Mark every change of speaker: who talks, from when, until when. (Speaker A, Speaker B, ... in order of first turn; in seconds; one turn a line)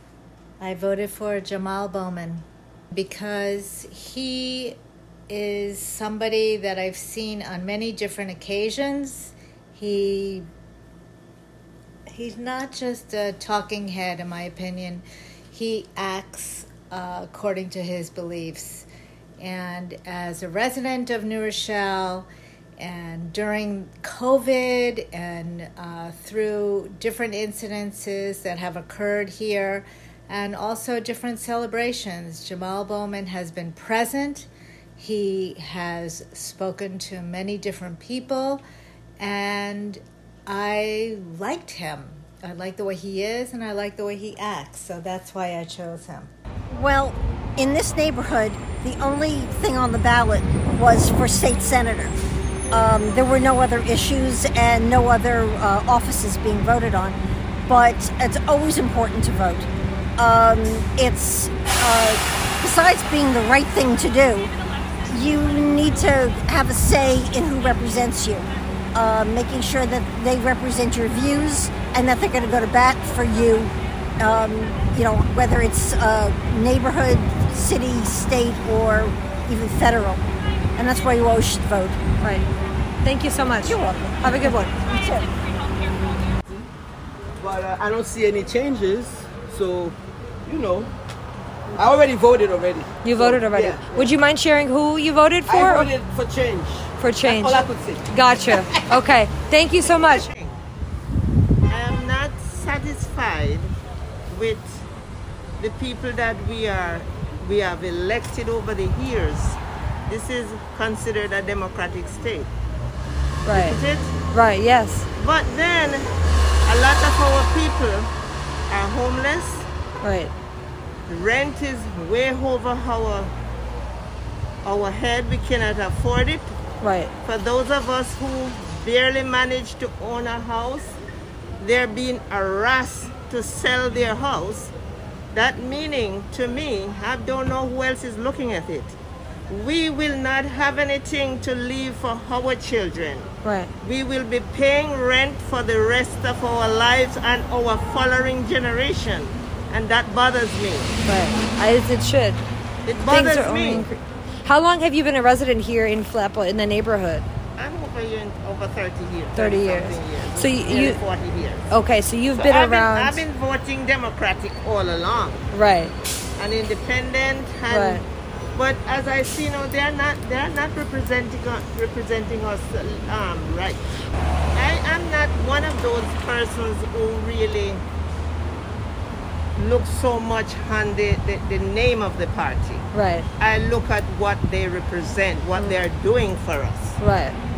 Speaker A: 0.6-4.8
Speaker A: 5.3-10.5
Speaker A: 12.1-18.9
Speaker A: 19.4-38.6
Speaker A: 39.2-46.3
Speaker B: 46.7-52.2
Speaker B: 52.7-64.5
Speaker B: 65.1-80.2
Speaker B: 80.8-82.0
Speaker C: 82.2-82.5
Speaker C: 83.0-84.7
Speaker B: 83.6-85.3
Speaker D: 87.4-90.9
Speaker D: 91.7-94.1
Speaker C: 93.0-95.9
Speaker D: 95.5-98.1
Speaker C: 97.0-100.2
Speaker E: 99.8-100.6
Speaker E: 101.7-103.7
Speaker E: 104.3-104.8
Speaker E: 105.6-112.5
Speaker C: 113.4-113.8
Speaker E: 113.4-114.2
Speaker C: 114.3-115.1
Speaker E: 115.1-116.1
Speaker E: 116.7-118.1
Speaker E: 118.7-119.7
Speaker C: 120.0-120.3
Speaker E: 121.1-123.3
Speaker E: 124.6-126.6
Speaker C: 126.8-127.1
Speaker E: 127.2-131.0
Speaker E: 131.6-134.7
Speaker E: 135.3-139.0
Speaker E: 139.5-151.0
Speaker C: 143.4-143.7
Speaker C: 151.0-152.4
Speaker E: 152.8-153.9
Speaker C: 153.1-157.2
Speaker E: 157.6-161.7
Speaker C: 159.3-161.0
Speaker C: 161.7-163.2
Speaker E: 162.3-165.4
Speaker C: 165.5-165.9
Speaker E: 166.4-173.9
Speaker C: 167.7-168.0
Speaker E: 174.5-177.8
Speaker E: 179.6-187.0
Speaker C: 182.9-183.3
Speaker C: 187.0-187.4